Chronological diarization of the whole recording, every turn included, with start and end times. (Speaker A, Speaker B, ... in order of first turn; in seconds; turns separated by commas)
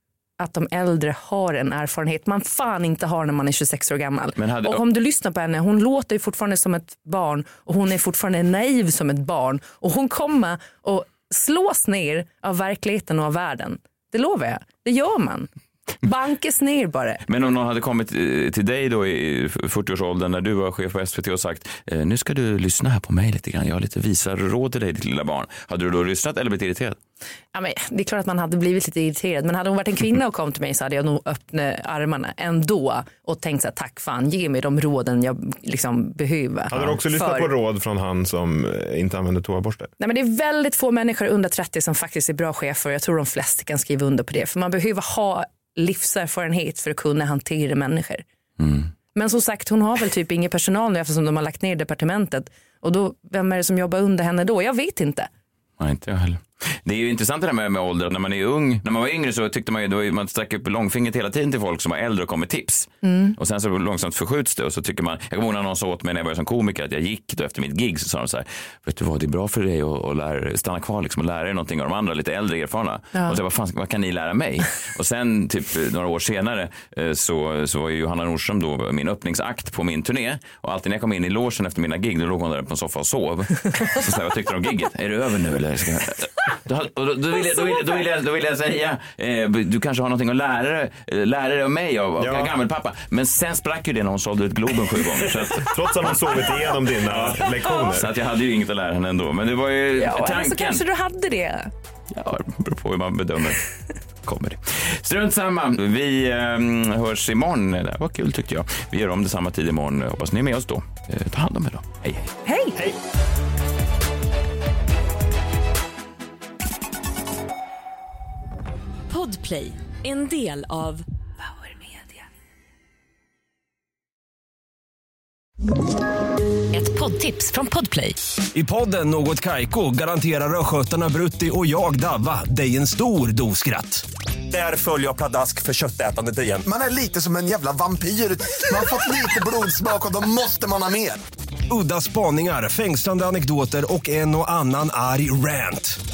Speaker A: 0.4-15.5, Speaker B: 4.4-4.8, Speaker A: 16.0-17.2, Speaker B: 17.3-27.0, Speaker A: 27.5-37.5, Speaker C: 36.7-39.9, Speaker A: 40.0-48.2, Speaker B: 48.6-48.9, Speaker A: 49.1-55.3, Speaker B: 55.8-100.8, Speaker A: 63.0-63.3, Speaker C: 92.2-92.5, Speaker C: 95.4-98.1, Speaker A: 100.0-101.7, Speaker B: 102.1-103.7, Speaker B: 104.2-112.3, Speaker A: 112.5-112.8, Speaker D: 119.1-122.2, Speaker D: 126.7-128.2, Speaker E: 128.5-136.6, Speaker F: 136.7-141.2, Speaker E: 141.7-146.0